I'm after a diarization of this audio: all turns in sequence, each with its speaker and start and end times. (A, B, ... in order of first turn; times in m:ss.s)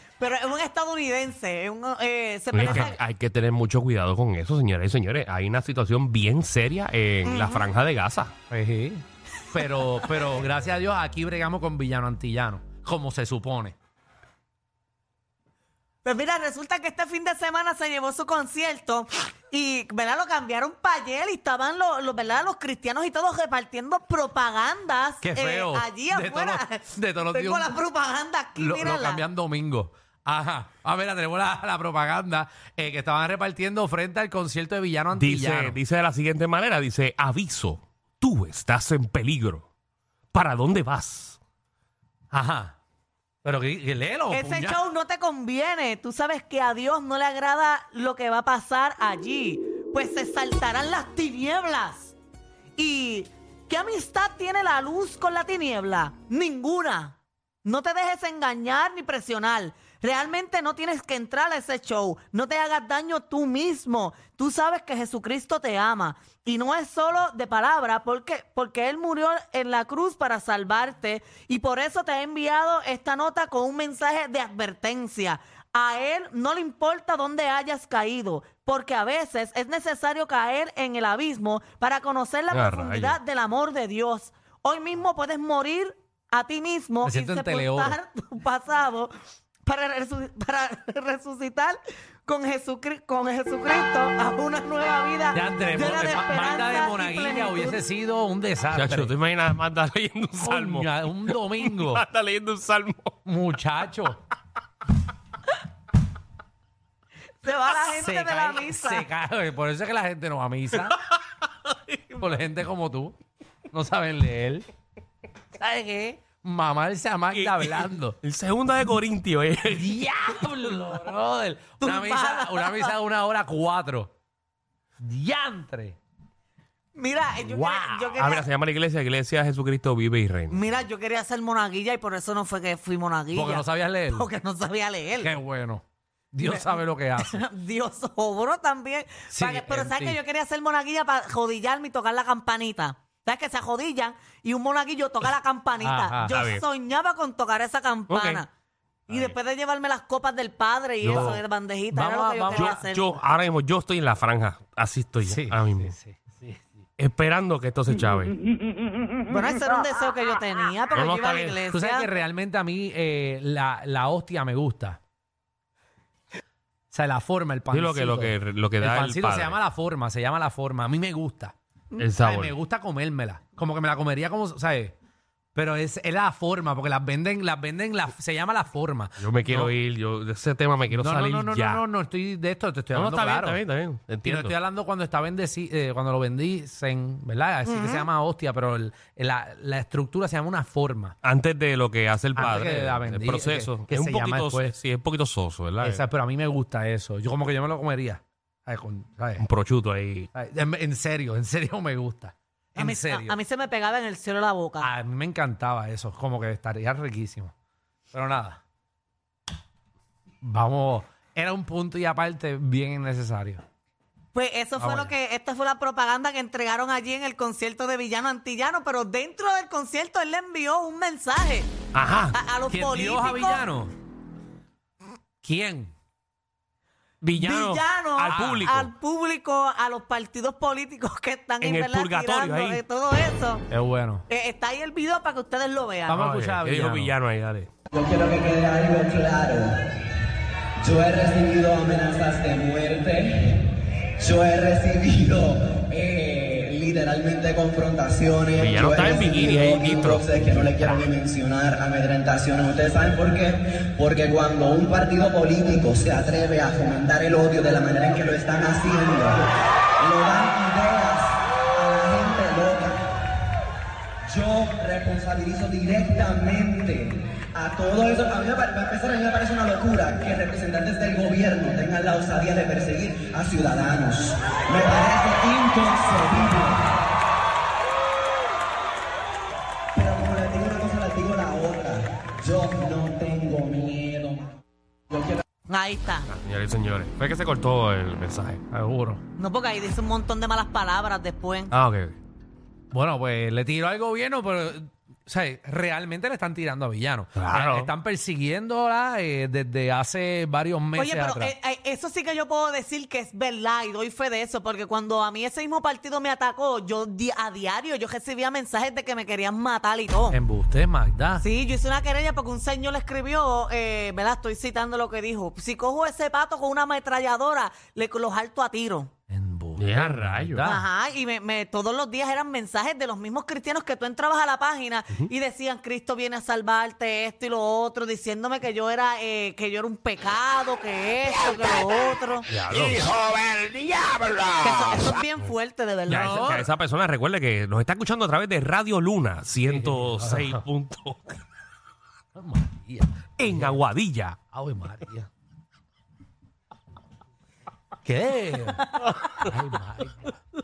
0:00.2-0:03.0 A
0:02.5-0:08.3 B
0:02.6-0:02.9 C
0:07.2-0:07.6 A
0:08.5-0:13.8 C
0:09.6-0:10.0 A
0:16.0-0:29.2 A
0:25.2-0:27.7 C
0:28.6-0:35.8 C
0:35.1-0:39.7 B
0:40.3-0:41.4 B
0:42.3-0:42.8 C
0:43.4-0:44.8 C
0:44.3-0:52.1 A
0:52.8-1:29.1 A
1:22.5-1:23.2 B
1:27.0-1:28.0 C
1:29.6-1:37.8 A
1:35.3-1:39.1 C
1:38.7-1:43.2 B
1:40.4-1:42.0 C
1:43.2-1:44.2 C
1:47.4-1:49.1 A
1:47.9-1:51.0 C
1:50.9-1:52.2 B
1:52.1-1:53.2 C
1:53.7-1:54.6 C
1:55.6-1:58.2 C
1:57.3-2:00.0 B
1:59.7-2:04.1 C
2:01.8-2:02.9 A
2:05.0-2:06.0 C
2:06.9-2:08.5 A
2:07.4-2:08.1 C
2:08.2-2:10.8 B
2:10.5-2:15.4 A
2:13.3-2:14.3 C
2:15.2-2:17.4 C
2:16.4-2:28.5 A
2:19.3-2:20.2 C
2:25.8-2:26.4 C
2:26.3-2:26.6 B
2:28.1-2:28.4 B
2:29.1-2:29.4 B
2:29.1-2:33.1 A
2:31.0-2:31.4 B
2:31.1-2:32.8 C
2:32.5-2:35.9 B
2:35.2-2:36.6 C
2:37.0-2:38.4 B
2:39.3-2:42.1 A
2:40.9-2:41.6 B
2:41.7-2:45.0 C
2:46.9-2:51.5 C
2:47.7-2:49.6 B
2:52.0-2:52.5 B
2:52.2-2:54.9 C
2:55.5-2:59.7 C
2:59.2-3:01.8 B
3:00.9-3:03.6 C
3:02.9-3:04.5 B
3:04.2-3:11.2 C
3:07.6-3:08.1 A
3:11.2-3:16.0 B
3:12.4-3:14.7 C
3:15.8-3:19.5 C
3:19.4-3:20.3 B
3:20.3-3:23.4 C
3:22.8-3:24.9 A
3:24.8-3:27.5 C
3:28.1-3:28.6 C
3:30.4-3:33.6 C
3:34.3-3:41.7 A
3:34.8-3:35.1 C
3:41.9-3:42.4 B
3:42.3-3:43.6 A
3:42.7-3:43.9 C
3:45.4-3:45.9 C
3:47.2-3:48.9 B
3:47.4-3:53.6 A
3:48.3-3:48.7 C
3:51.6-3:52.8 B
3:53.7-3:54.2 C
3:54.3-3:56.2 A
3:56.1-3:57.1 C
3:56.1-3:57.7 B
3:57.9-3:59.8 D
4:00.8-4:19.5 D
4:08.6-4:11.0 B
4:20.0-4:23.0 D
4:24.3-4:36.9 D
4:39.9-4:44.6 D
4:45.1-4:45.4 D
4:45.7-4:46.3 A
4:46.3-4:48.6 B
4:48.7-4:49.2 C
4:49.4-4:51.7 A
4:51.7-4:52.2 B
4:52.9-5:01.5 C
4:57.4-4:57.9 B
5:00.9-5:10.4 A
5:10.3-5:11.4 C
5:11.4-5:19.1 A
5:19.3-5:20.8 C
5:19.8-5:20.7 B
5:20.6-5:32.5 A
5:32.5-5:33.1 B
5:34.6-5:36.4 A
5:36.1-5:41.4 B
5:36.1-5:36.7 C
5:39.6-5:40.6 C
5:42.3-5:43.8 C
5:43.4-5:44.4 B
5:44.5-5:45.3 C
5:48.0-5:50.4 C